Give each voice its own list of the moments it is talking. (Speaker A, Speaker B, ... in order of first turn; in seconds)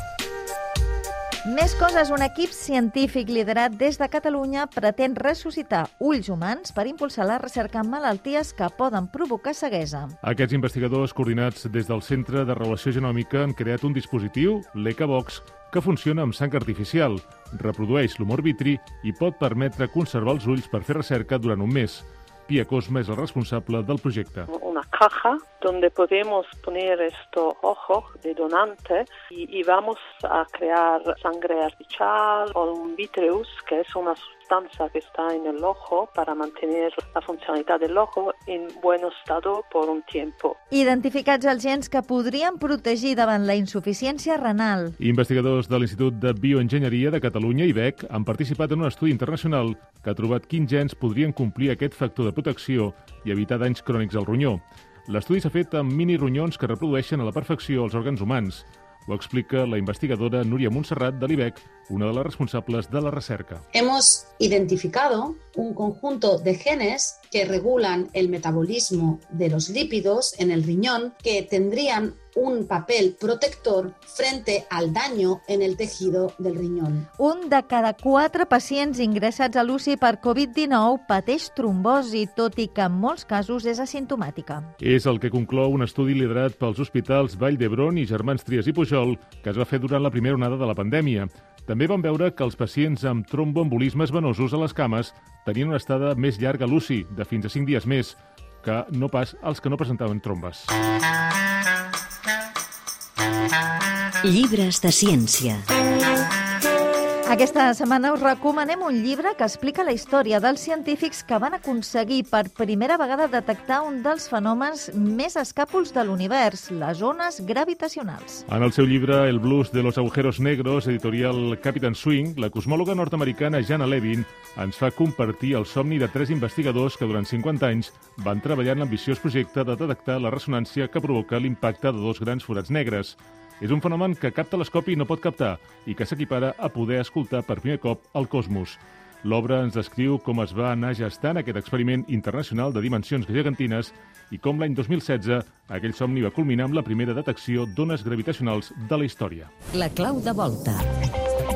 Speaker A: 1.4-10.2, 40.7-45.0, 77.2-84.7, 107.3-118.4
Speaker B: 10.2-24.5, 45.0-63.6, 84.8-100.7, 118.5-149.5
Speaker C: 24.5-40.5
Speaker D: 63.7-77.1
Speaker E: 104.2-105.6, 149.7-150.9